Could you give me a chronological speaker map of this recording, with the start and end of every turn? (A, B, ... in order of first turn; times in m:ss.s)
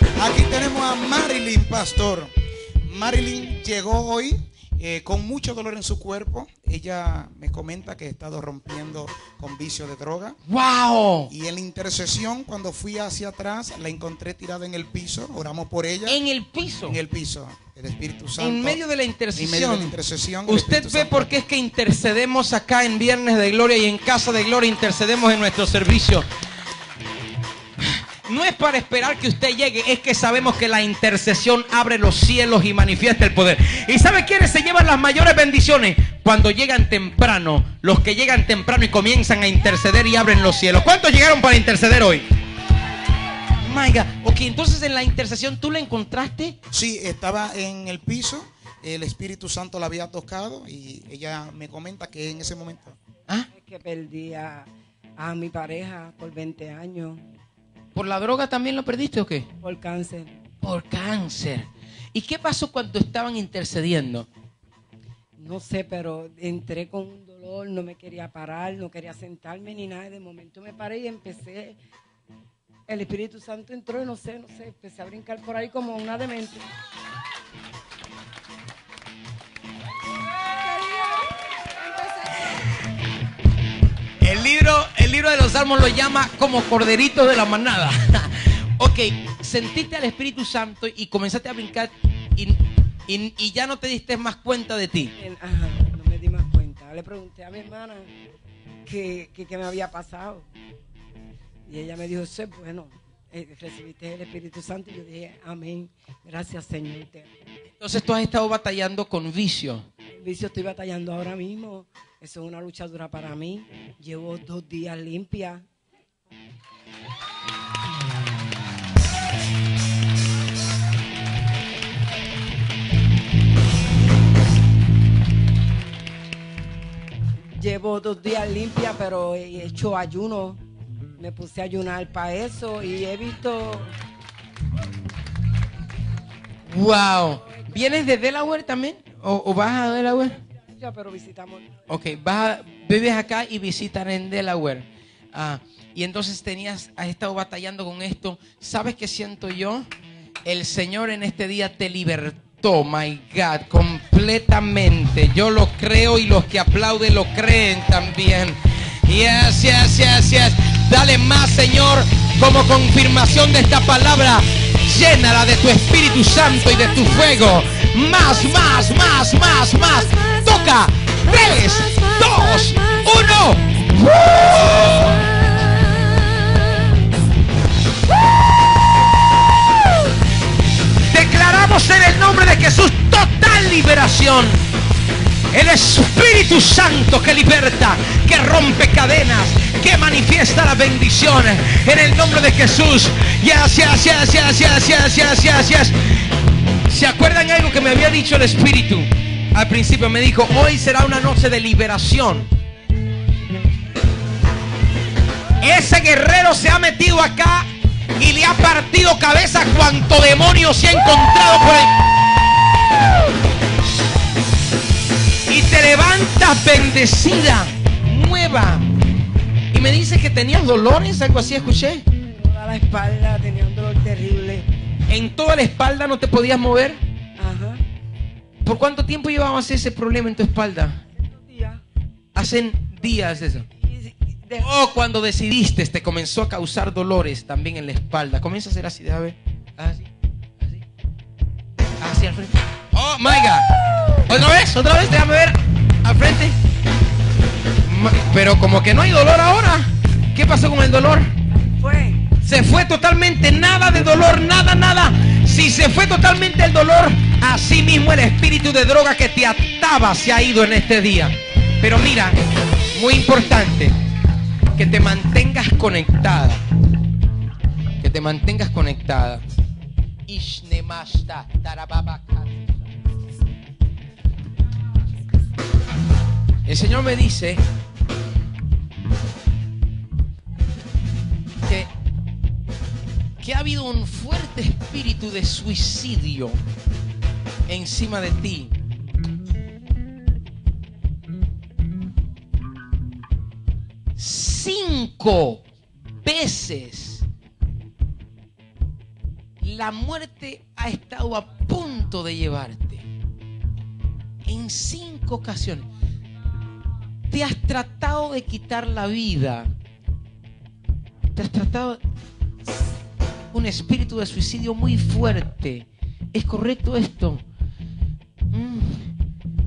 0:00.2-0:02.3 A
0:02.8-0:10.4 A
0:10.5-0:11.3 B
0:11.3-0:16.2 A
0:16.0-0:17.0 B
0:16.8-0:18.8 A
0:18.4-0:26.2 B
0:19.3-0:21.3 A
0:27.8-0:42.2 B
0:43.6-0:46.6 B
0:46.7-0:53.0 A
0:53.5-0:57.2 C
0:57.9-0:59.5 B
0:59.6-1:00.4 C
1:00.6-1:04.3 B
1:05.4-1:11.8 C
1:12.9-1:16.6 C
1:24.2-1:35.1 B
1:35.2-1:38.1 C
1:38.8-1:40.5 C
1:41.6-1:47.3 C
1:47.8-1:49.8 B
1:50.1-1:55.6 C
2:07.5-2:10.6 C
2:11.2-2:13.9 C
2:16.7-2:20.4 B
2:20.7-2:21.8 C
2:21.9-2:29.9 B
2:30.4-2:56.9 B
3:01.1-3:04.6 B
3:05.5-3:16.0 B
3:16.9-3:22.5 B
3:25.6-3:31.9 B
3:35.5-3:38.8 B
3:39.7-3:42.0 B
3:42.2-3:44.7 C
3:45.1-3:47.0 B
3:47.4-3:47.8 C
3:48.6-3:51.0 B
3:51.2-3:51.8 C
3:52.3-3:53.6 B
3:53.8-3:54.7 C
3:54.6-4:00.0 B
4:02.0-4:06.5 B
4:07.8-4:11.3 B
4:11.8-4:12.2 C
4:12.4-4:22.4 B
4:22.9-4:24.0 B
4:24.7-4:26.6 B
4:28.0-4:29.4 B
4:30.3-4:32.8 B
4:36.6-4:37.6 B
4:41.6-4:41.9 B
4:43.4-4:46.6 B
4:47.7-4:48.8 B
4:54.2-4:55.6 B
4:56.2-4:57.2 B
4:59.6-5:03.0 B
5:04.4-5:05.9 B
5:07.3-5:09.7 B
5:11.3-5:12.0 B
5:13.5-5:17.4 B
5:18.5-5:19.1 B